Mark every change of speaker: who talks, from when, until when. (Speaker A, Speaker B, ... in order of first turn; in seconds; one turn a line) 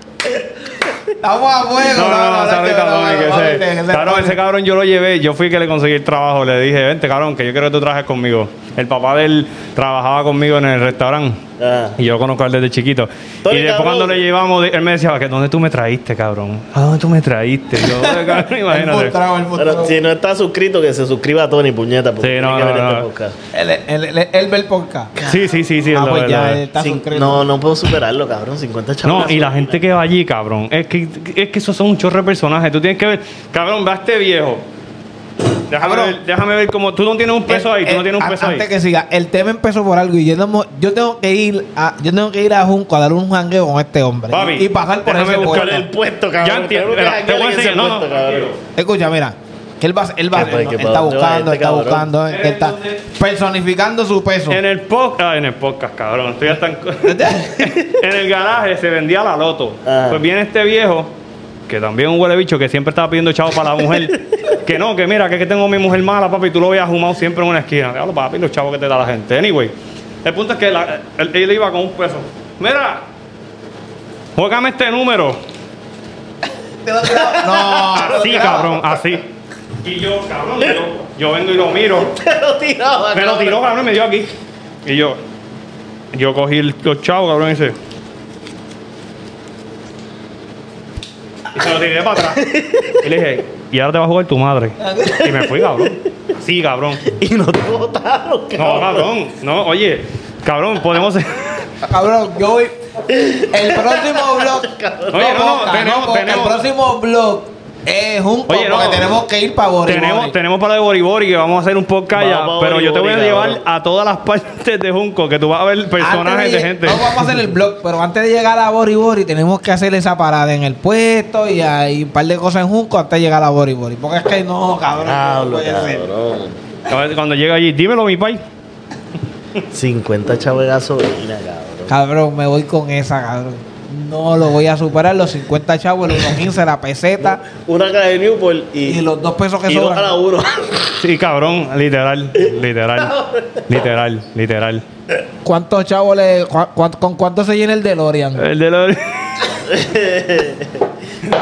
Speaker A: 0.2-0.9
Speaker B: 1.2-4.3
Speaker C: 1.9-11.4
Speaker A: 11.6-12.0
Speaker C: 12.0-19.1
Speaker A: 13.4-14.2
Speaker B: 17.8-20.0
Speaker A: 19.5-23.3
Speaker C: 22.2-23.1
Speaker B: 23.5-25.1
Speaker A: 25.1-25.6
Speaker C: 25.2-26.6
Speaker B: 25.9-27.4
Speaker A: 26.8-29.8
Speaker C: 29.0-34.6
Speaker C: 35.7-38.6
Speaker B: 35.8-36.1
Speaker B: 37.5-45.9
Speaker C: 44.3-45.8
Speaker A: 45.4-48.5
Speaker C: 46.4-48.5
Speaker B: 48.8-54.6
Speaker A: 50.3-52.1
Speaker C: 52.3-53.0
Speaker C: 54.5-61.1
Speaker B: 57.0-57.7
Speaker A: 59.8-60.2
Speaker C: 61.7-69.7
Speaker C: 70.2-73.0
Speaker C: 74.3-75.4
Speaker B: 76.8-78.8
Speaker A: 77.1-78.7
Speaker C: 77.9-79.2
Speaker C: 79.8-82.1
Speaker A: 82.0-83.6
Speaker C: 83.1-84.3
Speaker C: 84.8-85.2
Speaker C: 86.1-87.7
Speaker C: 91.5-97.0
Speaker A: 92.3-93.0
Speaker B: 94.8-95.3
Speaker A: 95.1-96.0
Speaker A: 97.0-99.1
Speaker C: 98.6-101.6
Speaker B: 101.8-102.7
Speaker A: 103.1-105.7
Speaker B: 103.5-110.3
Speaker C: 105.1-106.6
Speaker C: 108.5-109.1
Speaker C: 109.8-117.4
Speaker A: 112.1-113.6
Speaker B: 116.0-126.0
Speaker A: 125.0-126.6
Speaker C: 126.9-128.4
Speaker A: 129.7-131.9
Speaker B: 131.9-137.4
Speaker A: 137.2-139.0
Speaker B: 138.8-140.1
Speaker A: 139.7-140.9
Speaker C: 141.0-144.8
Speaker A: 142.4-143.6
Speaker B: 145.4-148.4
Speaker C: 148.4-149.1
Speaker A: 149.7-150.9